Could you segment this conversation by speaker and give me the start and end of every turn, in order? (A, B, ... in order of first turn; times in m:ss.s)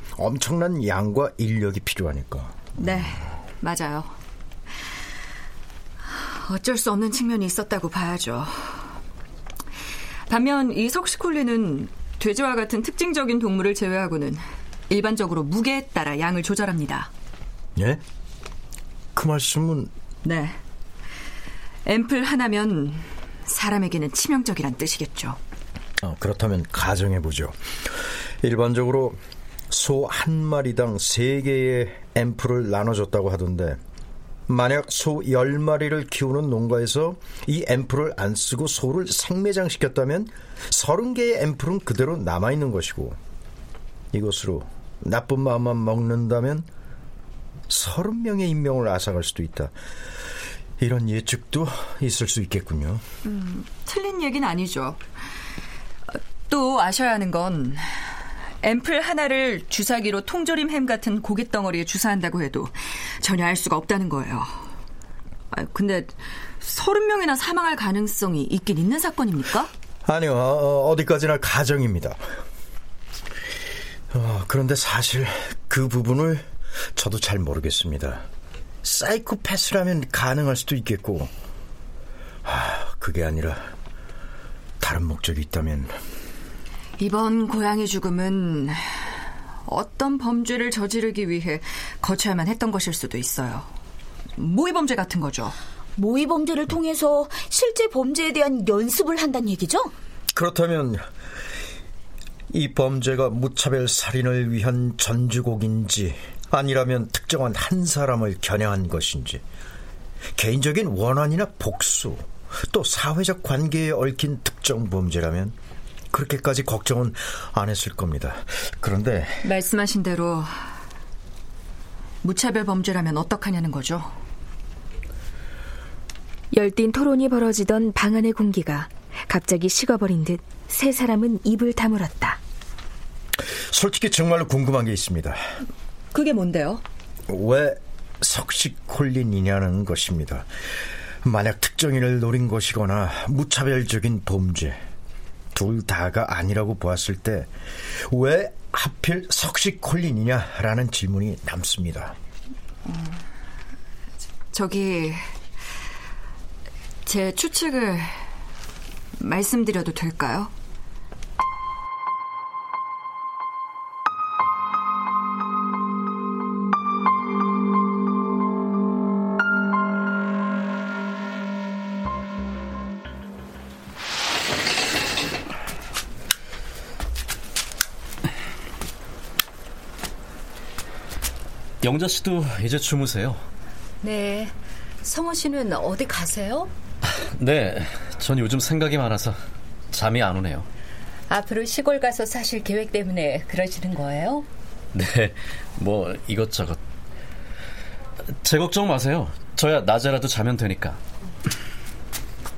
0:00.2-0:02.8 A
0:02.8-0:04.1 B
0:06.0-0:08.8 B
0:10.3-0:17.1 B
0:17.8-0:18.0 A
0:19.2-0:19.9 A
0:20.2-0:20.6 B
0:21.9-0:25.4 B
0:26.0-0:27.6 A
0:28.4-0:29.2 A
0:29.7-0:33.8 A
0:34.5-0:43.2 A
0:44.1-0:46.7 A
0:47.7-0:49.7 A
0:50.8-0:53.0 A
0:53.2-0:55.0 B
0:56.2-0:57.9 B
0:58.6-1:04.5 B
1:05.5-1:09.7 B
1:10.1-1:12.2 A
1:14.1-1:18.2 A
1:18.8-1:21.3 A
1:22.4-1:23.6 A
1:24.8-1:25.9 A
1:27.0-1:28.8 B
1:29.7-1:33.7 B
1:34.4-1:35.6 B
1:36.0-1:39.9 C
1:40.3-1:41.0 A
1:42.5-1:49.4 A
1:50.4-1:55.6 A
1:56.1-1:59.5 A
1:59.4-2:00.6 B
2:02.2-2:04.1 B
2:06.5-2:12.4 D
2:13.7-2:15.4 A
2:16.1-2:16.8 B
2:17.3-2:20.5 A
2:21.2-2:24.8 A
2:25.6-2:32.2 A
2:32.9-2:33.2 B
2:34.5-2:35.3 B
2:37.0-2:38.2 B
2:39.2-2:40.5 B
3:01.8-3:03.4 E
3:04.0-3:04.5 F
3:05.0-3:06.7 F
3:07.0-3:09.4 E
3:09.9-3:10.7 E
3:11.3-3:14.5 F
3:14.9-3:16.8 E
3:18.4-3:21.0 E